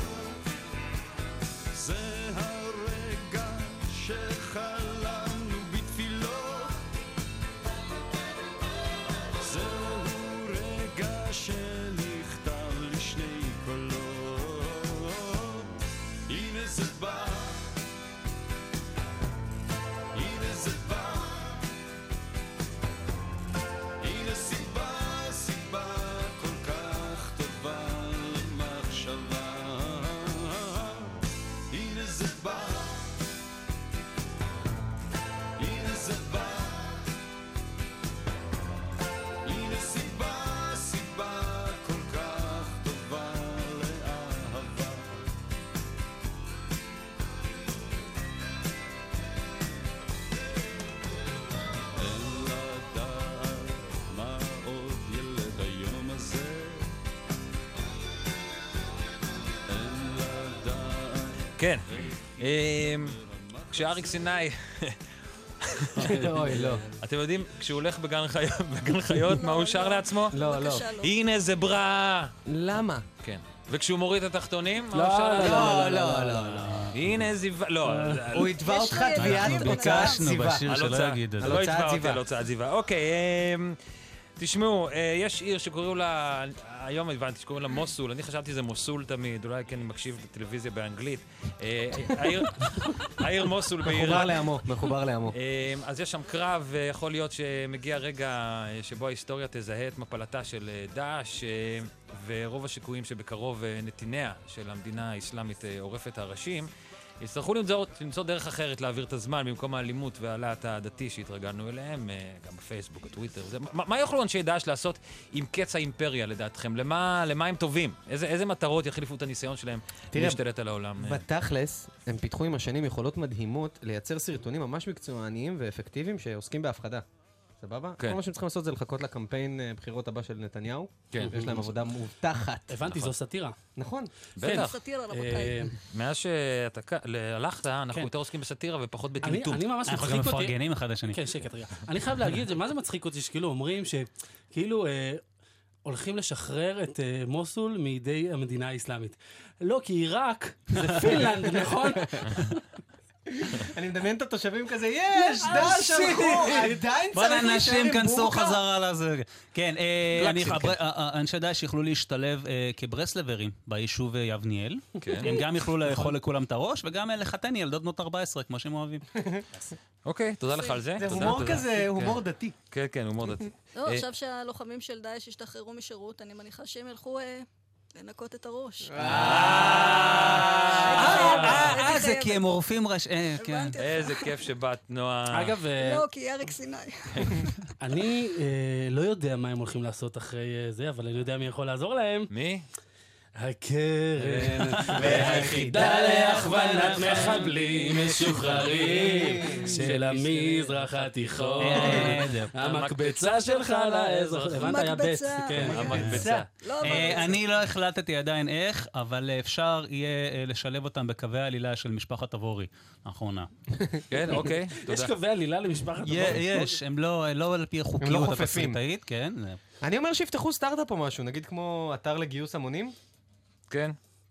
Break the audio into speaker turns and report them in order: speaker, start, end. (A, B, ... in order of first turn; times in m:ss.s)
0:01.7-0:06.8 A
0:09.4-0:15.7 A
0:16.3-0:17.7 A
0:20.1-0:21.6 A
0:24.0-0:33.1 A
0:35.6-0:37.0 A
0:39.4-0:45.3 A
0:52.0-0:56.9 A
0:59.7-1:04.2 A
1:01.6-1:01.8 B
1:02.4-1:03.2 B
1:03.7-1:05.0 B
1:05.6-1:06.2 B
1:05.9-1:06.8 C
1:06.2-1:06.8 D
1:07.0-1:10.4 B
1:09.2-1:11.1 E
1:10.3-1:10.9 D
1:11.0-1:12.3 B
1:12.5-1:13.0 D
1:13.2-1:15.9 B
1:14.9-1:16.7 C
1:15.4-1:16.8 D
1:16.9-1:18.6 B
1:17.8-1:18.3 C
1:18.3-1:20.7 D
1:18.5-1:20.3 E
1:19.2-1:21.6 F
1:20.6-1:23.8 B
1:21.4-1:22.2 D
1:24.4-1:34.3 B
1:33.8-1:35.4 D
1:35.3-1:46.7 B
1:47.2-2:01.2 B
2:00.1-2:00.4 D
2:01.0-2:07.0 D
2:07.6-2:12.8 D
2:12.7-2:13.6 C
2:13.8-2:14.1 D
2:14.4-2:14.8 B
2:14.4-2:15.8 C
2:14.4-2:15.6 E
2:15.9-2:19.7 B
2:19.2-2:20.6 C
2:19.9-2:21.2 F
2:21.1-2:25.2 C
2:25.8-2:32.6 C
2:33.3-2:38.6 D
2:35.2-2:36.8 C
2:37.1-2:49.0 F
2:40.1-2:40.7 B
2:45.0-2:45.3 B
2:49.2-2:49.4 D
2:50.0-2:52.2 B
2:50.5-2:50.9 E
2:51.0-2:52.6 D
2:52.7-2:54.0 B
2:53.7-2:59.0 E
2:58.9-3:01.2 D
2:59.0-3:01.8 B
2:59.2-2:59.4 C
2:59.6-3:03.8 F
3:00.8-3:02.5 E
3:03.4-3:04.4 E
3:03.8-3:05.6 B
3:05.3-3:06.0 C
3:05.8-3:07.5 E
3:07.8-3:12.3 C
3:12.3-3:12.6 B
3:13.4-3:26.2 C
3:14.4-3:17.2 D
3:14.5-3:24.8 B
3:18.6-3:19.9 D
3:21.6-3:22.5 F
3:24.6-3:27.4 E
3:25.6-3:26.5 B
3:25.9-3:33.5 F
3:34.1-3:35.1 B
3:34.4-3:36.8 C
3:36.0-3:39.6 F
3:38.0-3:38.8 D
3:39.8-3:42.9 D
3:43.7-3:44.0 B